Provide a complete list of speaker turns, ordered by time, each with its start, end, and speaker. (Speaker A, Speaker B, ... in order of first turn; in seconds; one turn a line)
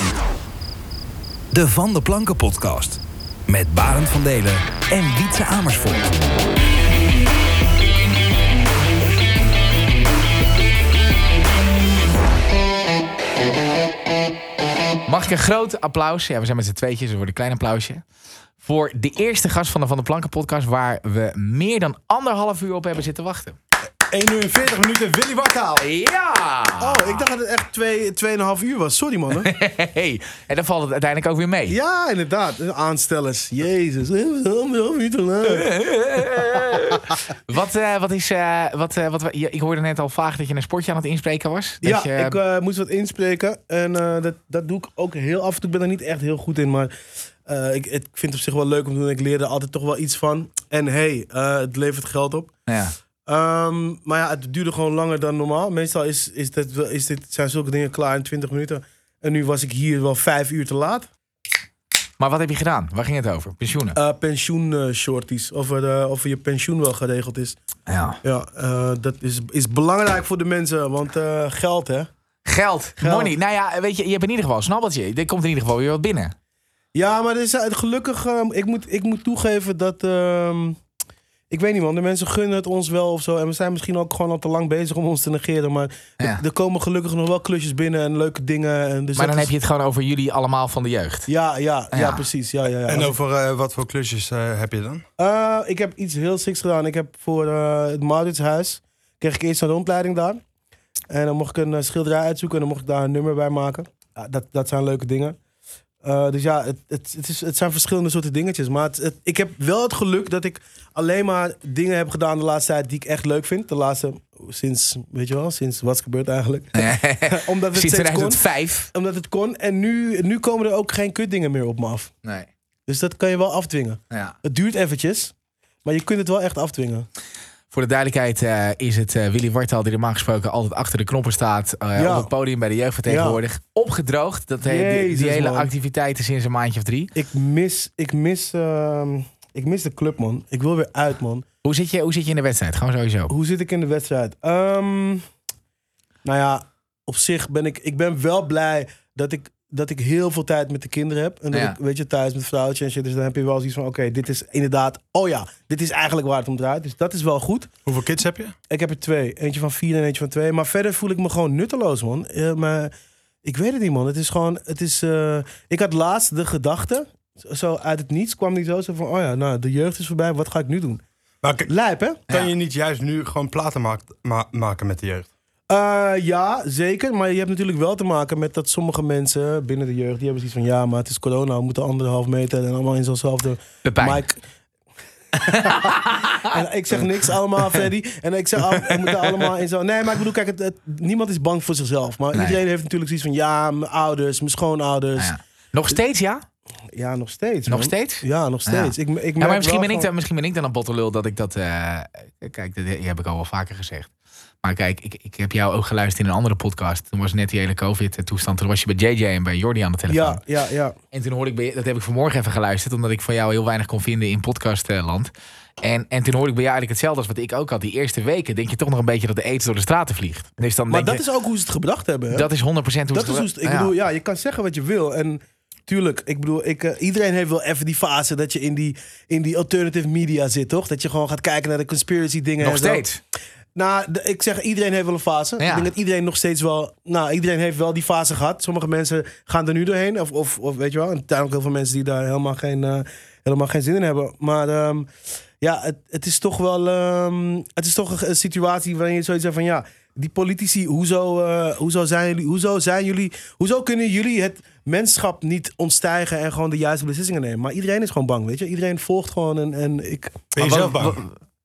Speaker A: 1.5-6.4
Speaker B: 15.1-18.0
Speaker B: 18.6-23.6
Speaker C: 24.1-25.8
Speaker B: 25.8-27.2
Speaker D: 26.8-29.5
Speaker B: 29.4-31.8
Speaker D: 31.7-35.7
Speaker B: 35.4-42.4
Speaker D: 41.8-46.9
Speaker D: 47.4-52.5
Speaker B: 52.7-52.9
Speaker D: 53.2-61.1
Speaker B: 62.2-64.0
Speaker D: 63.9-67.6
Speaker B: 67.9-68.2
Speaker D: 68.2-72.1
Speaker B: 72.5-76.3
Speaker D: 73.0-73.3
Speaker D: 76.9-80.8
Speaker D: 81.5-89.5
Speaker B: 89.2-91.3
Speaker D: 91.3-93.2
Speaker B: 91.9-92.2
Speaker C: 92.9-95.0
Speaker D: 95.2-100.4
Speaker D: 101.1-105.4
Speaker D: 106.0-122.1
Speaker B: 116.7-118.9
Speaker B: 122.2-122.5
Speaker D: 122.9-127.1
Speaker B: 124.1-124.4
Speaker B: 127.7-137.1
Speaker D: 131.9-132.3
Speaker D: 133.1-133.4
Speaker D: 134.6-135.7
Speaker D: 137.1-141.4
Speaker B: 141.6-143.3
Speaker D: 143.3-145.2
Speaker D: 146.2-157.7
Speaker B: 151.5-151.8
Speaker C: 157.8-158.5
Speaker D: 158.7-162.9
Speaker D: 163.4-171.0
Speaker C: 171.4-171.7
Speaker D: 171.7-172.2
Speaker C: 172.3-175.3
Speaker D: 175.7-184.4
Speaker B: 183.8-184.2
Speaker B: 185.3-186.6
Speaker D: 185.4-195.3
Speaker B: 192.3-192.6
Speaker B: 195.2-196.4
Speaker D: 196.9-200.1
Speaker B: 197.7-204.1
Speaker B: 204.6-210.4
Speaker D: 210.1-210.9
Speaker B: 211.1-221.2
Speaker D: 220.9-222.5
Speaker B: 222.3-223.9
Speaker D: 223.1-233.1
Speaker B: 232.6-233.2
Speaker D: 233.7-245.1
Speaker B: 235.6-235.9
Speaker D: 245.6-260.5
Speaker C: 260.5-261.2
Speaker B: 260.6-261.3